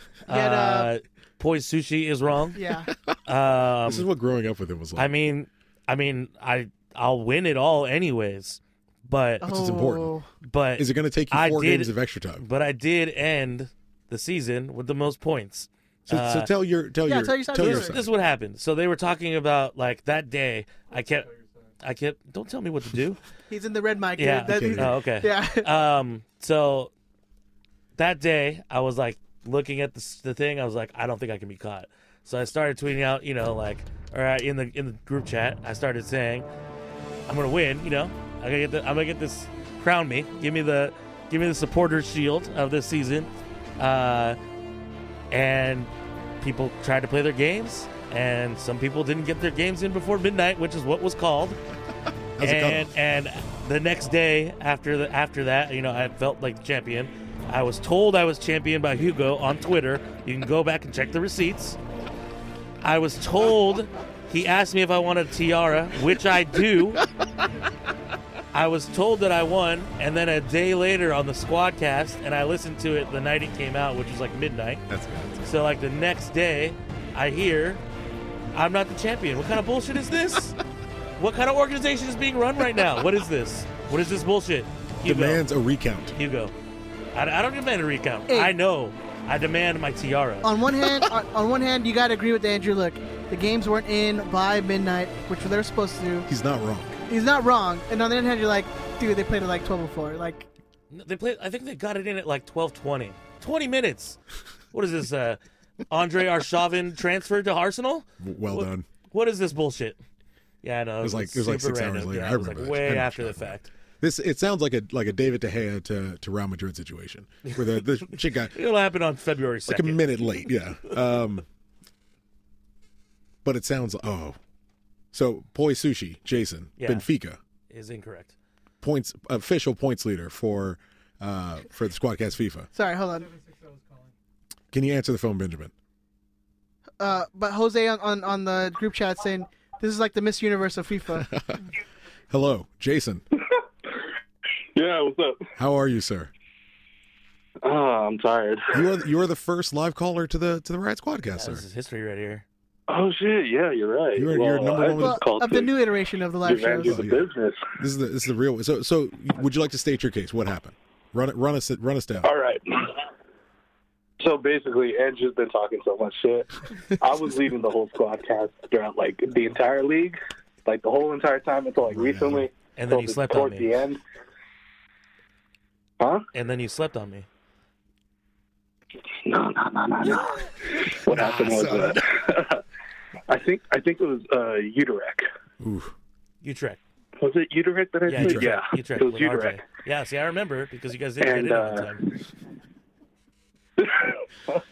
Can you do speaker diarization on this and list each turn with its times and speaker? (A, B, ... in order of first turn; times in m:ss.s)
0:00.2-0:02.6 A
0:00.3-0:00.9 B
0:02.5-0:02.9 B
0:03.3-0:04.1 A
0:03.8-0:05.2 C
0:05.0-0:09.5 A
0:09.4-0:10.1 C
0:09.4-0:10.3 B
0:10.4-0:16.5 A
0:10.8-0:12.4 C
0:16.1-0:18.1 C
0:17.0-0:18.0 B
0:17.6-0:23.2 A
0:23.5-0:25.7 B
0:24.2-0:26.9 A
0:24.5-0:24.9 C
0:28.0-0:36.5 A
0:37.3-0:44.4 A
0:45.3-0:51.6 A
0:52.4-0:52.9 C
0:52.4-1:01.8 A
1:02.8-1:07.0 A
1:08.5-1:14.8 A
1:14.9-1:15.5 C
1:15.4-1:17.8 A
1:18.5-1:20.6 A
1:21.2-1:25.4 A
1:25.0-1:26.2 C
1:26.2-1:26.5 A
1:27.1-1:30.5 A
1:28.3-1:28.6 B
1:30.4-1:36.3 B
1:36.3-1:37.0 C
1:37.1-1:40.5 B
1:40.9-1:44.2 A
1:44.7-1:50.0 A
1:48.2-1:48.9 C
1:50.6-1:53.7 A
1:51.0-1:58.6 C
1:57.4-2:00.5 A
1:59.7-2:01.5 C
2:03.4-2:04.4 C
2:05.1-2:07.4 C
2:06.8-2:07.1 A
2:07.7-2:08.4 A
2:08.8-2:12.7 C
2:12.7-2:13.3 B
2:14.7-2:15.7 C
2:17.0-2:21.3 B
2:21.2-2:21.7 C
2:22.3-2:23.2 C
2:24.8-2:25.5 D
2:25.6-2:26.3 C
2:27.6-2:28.8 D
2:28.7-2:31.6 C
2:31.4-2:32.4 A
2:32.9-2:35.7 D
2:34.2-2:35.2 C
2:35.0-2:37.0 B
2:36.4-2:37.8 D
2:36.8-2:42.3 C
2:42.2-2:43.1 D
2:44.2-2:54.0 D
2:51.9-2:52.5 C
2:52.8-2:53.8 A
2:56.0-2:56.3 D
2:56.3-2:57.3 A
2:59.2-3:02.6 D
3:00.8-3:02.2 C
3:03.3-3:05.2 D
3:05.6-3:06.0 C
3:06.4-3:06.8 A
3:07.2-3:09.6 D
3:08.1-3:12.2 A
3:08.1-3:08.6 C
3:11.2-3:12.2 D
3:13.8-3:14.6 D